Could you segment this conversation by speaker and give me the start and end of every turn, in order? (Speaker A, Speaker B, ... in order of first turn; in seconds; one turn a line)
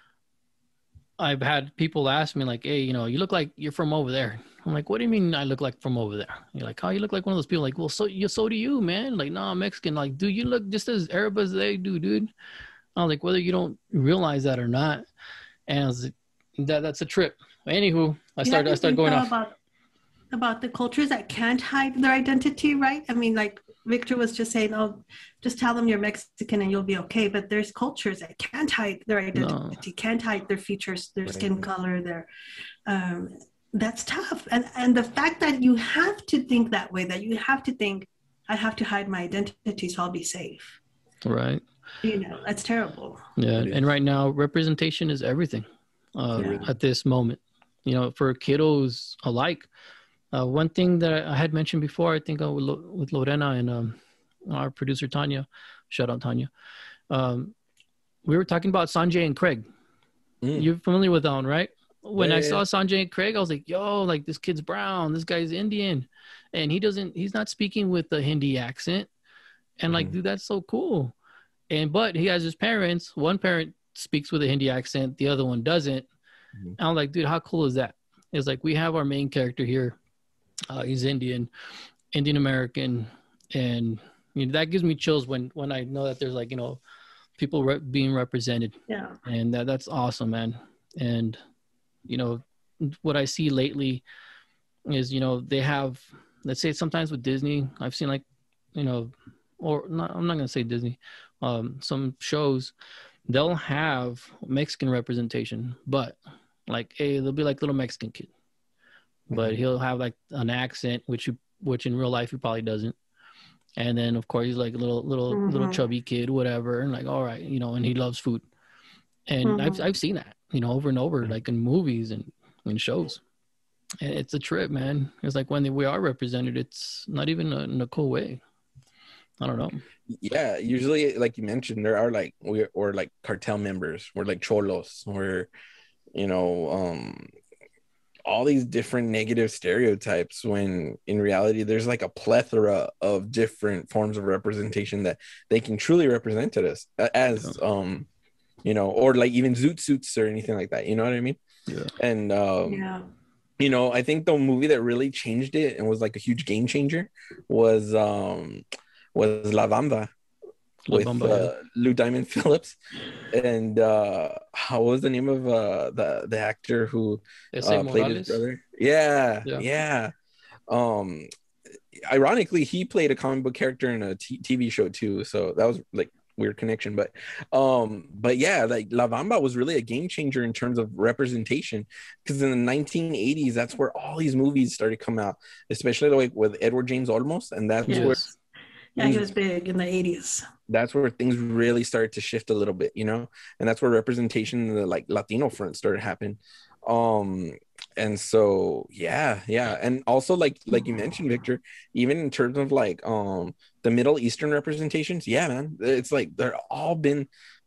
Speaker A: 1.2-12.3
Speaker A: 13.0-15.1
Speaker A: 15.7-19.3
Speaker B: 18.5-19.6
Speaker B: 20.3-32.3
Speaker A: 29.4-29.8
Speaker C: 31.3-31.6
Speaker B: 32.9-40.8
Speaker A: 41.2-41.6
Speaker B: 42.0-43.2
Speaker A: 43.4-49.7
Speaker C: 43.5-43.8
Speaker B: 46.4-46.7
Speaker A: 50.3-56.5
Speaker A: 57.1-57.5
Speaker A: 58.2-59.6
Speaker C: 60.4-60.7
Speaker A: 60.5-69.1
Speaker C: 62.2-62.6
Speaker A: 69.8-71.1
Speaker A: 71.7-76.1
Speaker A: 76.8-80.0
Speaker A: 80.7-81.5
Speaker A: 82.1-86.8
Speaker A: 87.4-91.4
Speaker B: 88.9-89.2
Speaker A: 92.1-94.0
Speaker A: 94.9-98.2
Speaker A: 98.8-102.7
Speaker A: 103.3-108.3
Speaker C: 109.3-109.6
Speaker A: 109.3-113.0
Speaker A: 113.8-118.5
Speaker B: 115.3-115.8
Speaker A: 119.3-123.2
Speaker B: 119.5-119.8
Speaker A: 124.0-128.4
Speaker A: 129.4-129.8
Speaker C: 130.1-135.5
Speaker C: 136.1-137.3
Speaker C: 138.3-148.1
Speaker C: 148.6-151.4
Speaker A: 151.7-151.9
Speaker C: 152.0-152.8
Speaker B: 152.7-153.1
Speaker C: 153.6-160.1
Speaker A: 160.9-161.5
Speaker C: 160.9-162.8
Speaker C: 163.3-170.1
Speaker A: 167.5-168.4
Speaker C: 170.7-171.3
Speaker C: 171.9-188.2
Speaker B: 187.9-188.2
Speaker A: 187.9-188.3
Speaker B: 189.0-190.5
Speaker C: 189.0-189.3
Speaker C: 190.7-207.3